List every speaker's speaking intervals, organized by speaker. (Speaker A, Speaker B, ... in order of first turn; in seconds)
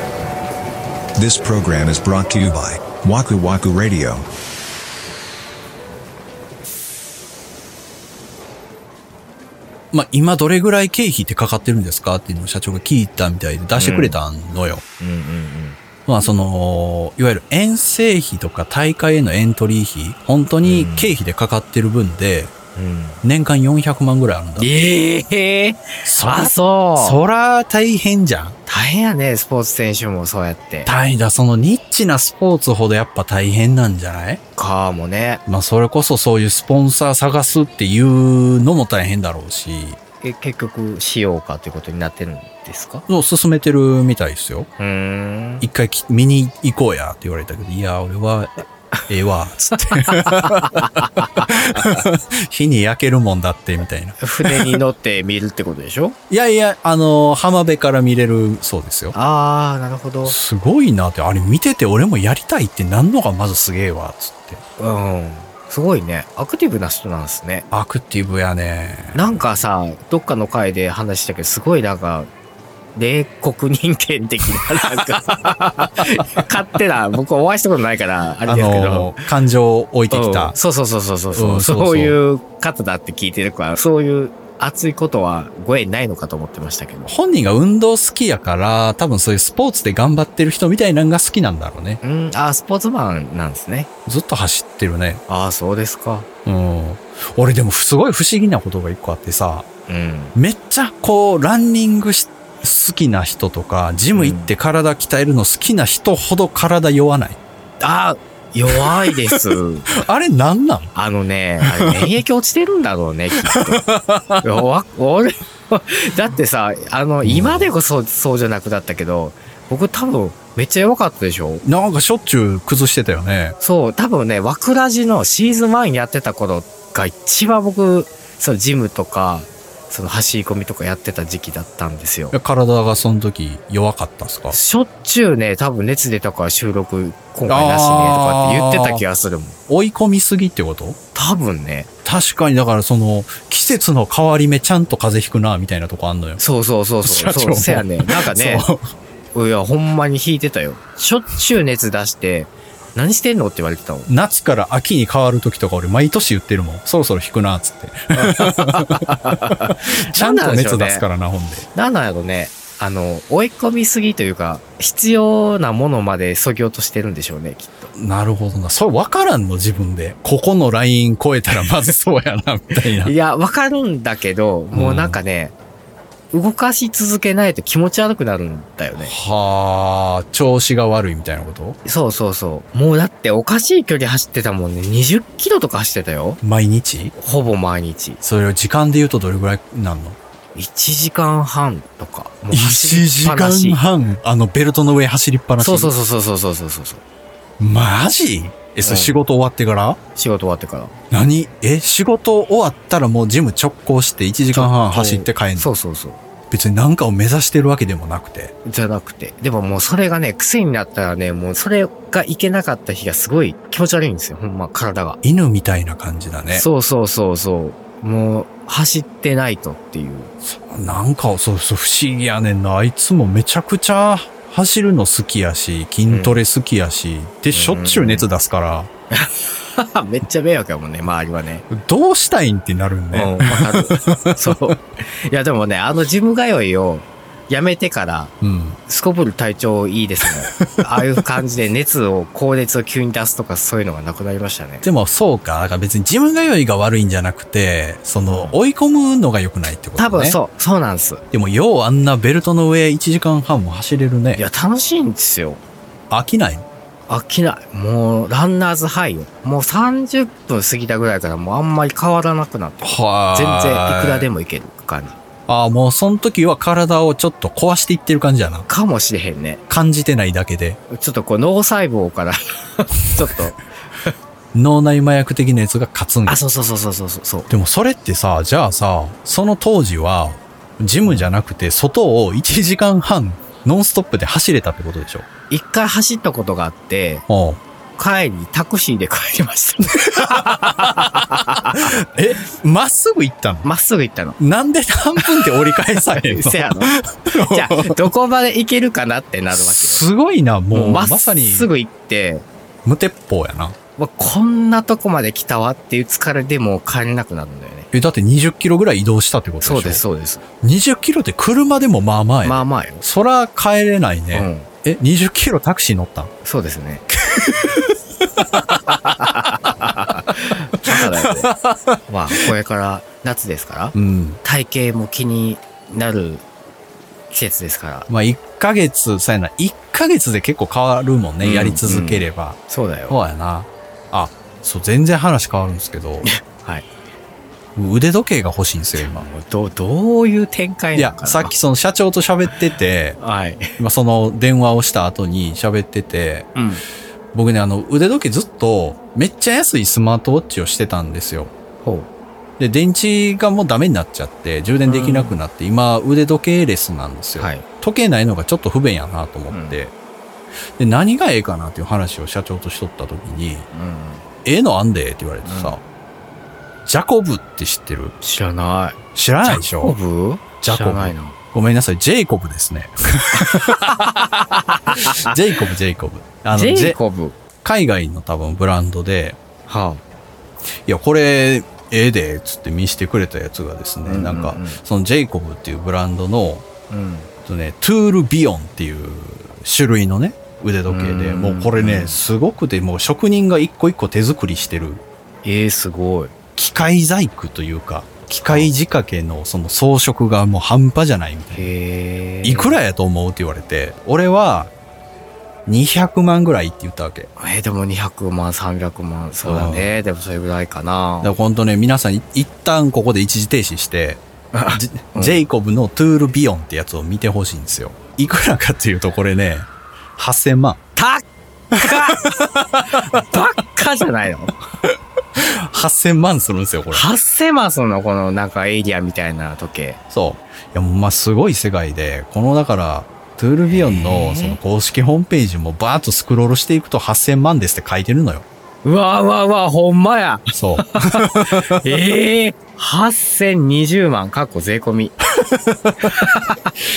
Speaker A: 1.2-4.3
Speaker B: 9.9-14.8, 16.1-22.5, 23.2-24.7, 26.0-28.6, 30.9-34.4, 35.5-40.0, 43.1-44.7, 45.6-54.8, 56.3-59.1, 60.2-64.6, 67.7-69.4, 78.5-80.5, 81.3-82.2, 87.0-92.0, 94.0-95.2, 96.4-99.7, 100.3-107.4, 108.7-110.9, 111.6-112.1, 113.5-114.4, 117.2-117.7, 121.6-123.5, 132.3-134.6, 137.5-139.0, 139.7-141.0, 142.0-146.4, 147.0-148.8, 154.1-161.7, 167.9-173.1, 174.7-175.2, 179.0-181.8, 186.4-187.1, 188.2-190.2, 192.5-195.9, 197.6-200.0, 201.1-205.7, 206.5-208.5, 215.2-216.7, 220.4-228.9, 231.7-234.7, 238.4-238.8, 240.5-240.8, 244.8-250.4, 251.3-254.4, 256.1-256.6, 262.8-264.3, 265.5-268.6, 269.7-270.8, 274.5-276.4, 277.5-285.2, 287.3-287.6, 290.3-293.7, 294.4-298.0, 299.5-301.7, 302.8-303.7, 307.9-310.0, 310.6-316.3, 317.3-319.1, 320.8-322.5, 323.9-324.4, 328.1-336.3, 337.8-339.3, 340.9-343.2, 343.8-346.5, 347.3-351.5, 352.6-359.9, 360.8-363.7, 364.4-365.8, 366.9-368.1, 369.1-369.9, 370.6-373.9, 375.2-377.0, 377.6-379.4, 380.9-386.6, 387.4-395.0, 396.6-401.7, 402.4-404.7, 405.6-407.3, 409.4-409.9, 411.2-420.8, 422.1-423.0, 424.8-427.1, 430.1-438.4, 440.5-441.8, 445.4-446.3
Speaker C: 13.8-14.2, 15.0-15.8, 20.6-21.1, 22.7-23.2, 24.6-27.2, 28.6-30.9, 34.5-35.4, 40.2-43.0, 44.8-45.6, 49.8-52.0, 54.2-56.1, 59.1-60.4, 64.8-67.7, 69.1-72.3, 73.0-79.2, 80.1-87.1, 92.0-93.9, 95.3-96.3, 99.9-100.3, 104.1-104.5, 107.8-110.0, 110.9-113.8, 114.4-121.6, 123.6-132.3, 134.5-139.6, 141.1-141.9, 146.4-148.7, 149.3-154.1, 158.2-161.1, 161.7-167.9, 173.0-175.5, 176.3-179.1, 181.8-186.4, 187.1-188.2, 190.5-193.8, 195.6-197.0, 198.8-199.1, 200.1-200.9, 204.5-206.2, 208.6-215.2, 216.5-220.3, 226.1-226.4, 227.5-228.3, 229.1-231.7, 233.1-238.3, 238.9-244.9, 248.2-248.6, 250.0-251.2, 254.3-255.6, 257.1-265.2, 268.6-269.6, 270.9-274.1, 276.2-277.5, 285.5-287.2, 288.0-291.9, 293.6-294.4, 295.2-300.1, 300.7-302.4, 304.0-307.9, 309.6-310.4, 312.4-313.0, 314.3-314.7, 316.4-317.1, 318.7-321.5, 322.1-326.4, 327.3-328.1, 331.4-333.2, 336.2-336.9, 339.0-341.5, 343.2-343.8, 346.5-346.8, 351.8-352.1, 354.9-355.4, 357.4-357.6, 359.5-359.8, 363.7-364.2, 365.4-365.8, 368.2-371.4, 373.4-375.4, 376.5-377.4, 379.7-380.0, 384.0-384.8, 386.9-387.3, 390.9-392.2, 395.4-396.3, 398.4-398.7, 401.5-402.8, 407.4-411.4, 414.5-415.4, 420.9-422.3, 423.1-424.5, 426.9-430.0, 433.7-434.6, 438.8-445.2, 446.1-446.6